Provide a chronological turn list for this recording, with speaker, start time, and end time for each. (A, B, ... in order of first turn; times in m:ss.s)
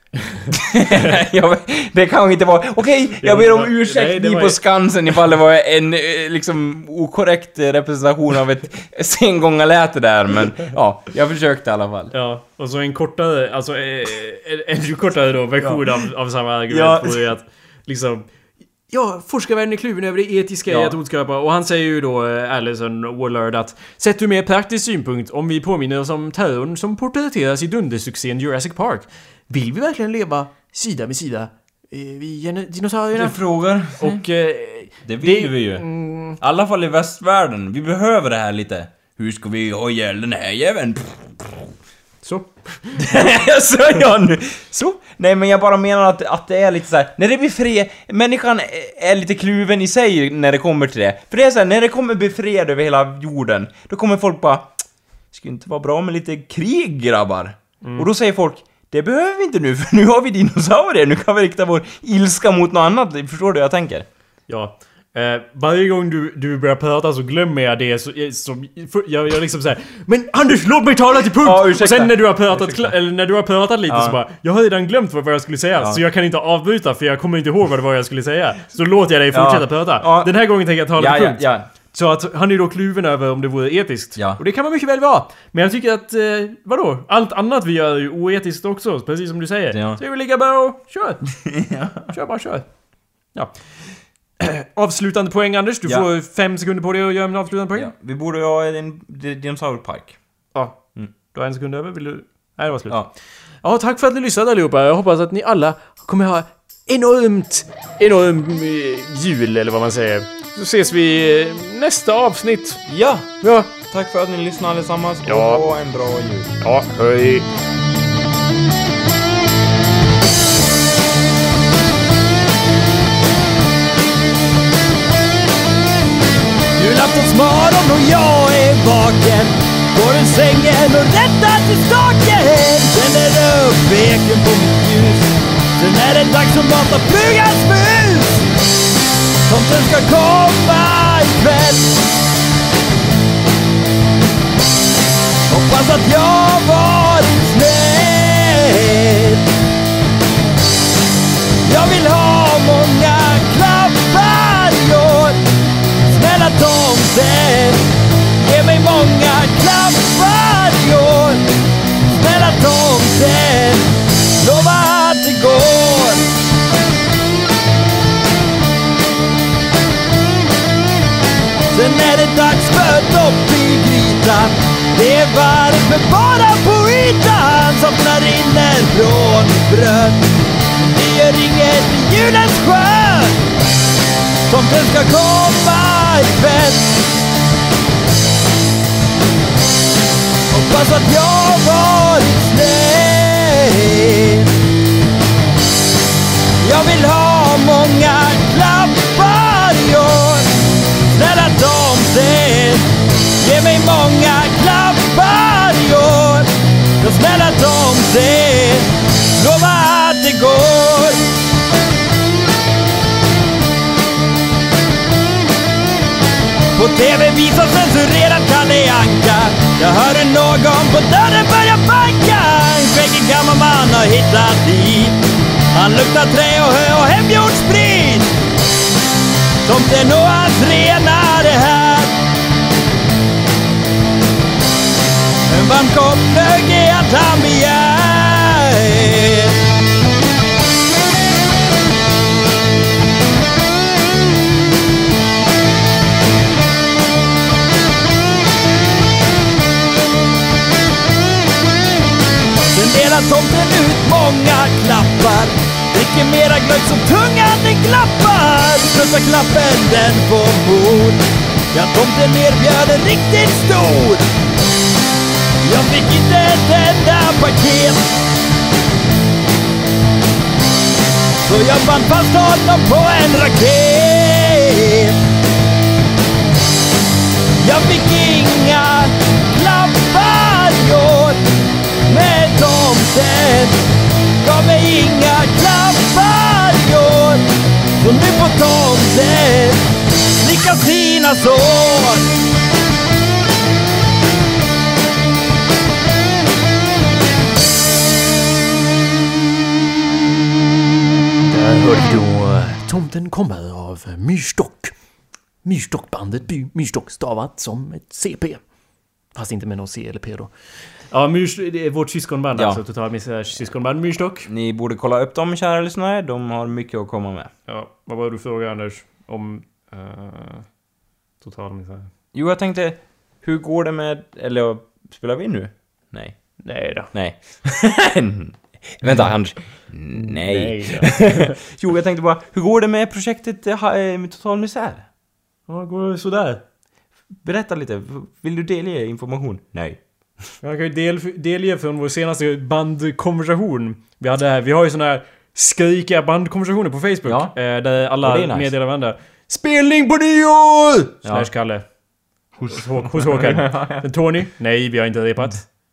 0:00.5-0:12.1 A
0:03.2-0:04.6 B
0:12.1-0:18.3 B
0:15.6-0:16.1 A
0:16.7-0:17.2 A
0:18.9-0:36.4 B
0:20.7-0:21.0 A
0:33.2-0:34.2 A
0:35.0-0:41.2 A
0:42.2-0:43.1 B
0:43.0-0:54.8 A
0:55.3-1:04.1 A
0:57.8-0:58.1 B
1:04.5-1:31.2 B
1:11.4-1:12.9 A
1:13.9-1:14.2 A
1:19.3-1:20.3 A
1:20.9-1:21.7 A
1:29.7-1:30.0 A
1:31.4-1:32.1 A
1:32.0-1:32.6 B
1:34.4-1:37.9 B
1:37.7-1:40.2 A
1:41.3-1:43.0 B
1:43.6-1:52.8 B
1:52.8-1:56.5 A
1:53.4-1:53.7 B
1:55.2-1:55.6 B
1:56.6-1:57.5 B
2:06.8-2:18.5 C
2:19.5-2:22.0 C
2:25.5-2:29.4 C
2:31.6-2:35.4 C
2:36.0-2:37.8 C
2:38.4-2:41.4 C
2:42.0-2:46.2 C
2:51.7-3:00.2 C
3:00.8-3:03.4 C
3:04.5-3:06.9 C
3:10.5-3:14.5 C
3:16.6-3:20.5 C
3:21.0-3:22.8 C
3:23.4-3:26.5 C
3:27.0-3:31.2 C
3:36.7-3:45.2 C
3:45.7-3:48.3 C
3:49.6-3:52.1 C
3:55.5-3:59.5 C
4:12.7-4:24.2 C
4:25.6-4:28.1 C
4:31.4-4:35.1 C
4:37.6-4:41.4 C
4:42.1-4:43.8 C
4:44.4-4:47.4 C
4:48.0-4:49.8 C
4:50.4-4:52.3 C
5:01.5-5:04.9 B
5:05.6-5:08.6 B
5:09.3-5:10.5 B
5:11.1-5:14.5 B
5:12.5-5:12.8 A
5:14.4-5:17.5 A
5:17.7-5:20.7 B
5:21.4-5:22.1 B
5:22.3-5:26.4 A
5:26.6-5:27.1 B
5:27.1-5:35.0 A
5:30.1-5:31.6 B
5:35.7-5:36.6 B
5:37.4-5:40.0 A
5:40.6-5:51.8 B
5:47.2-5:47.5 A
5:48.2-5:48.7 A
5:52.6-5:54.0 A
5:52.7-5:55.7 B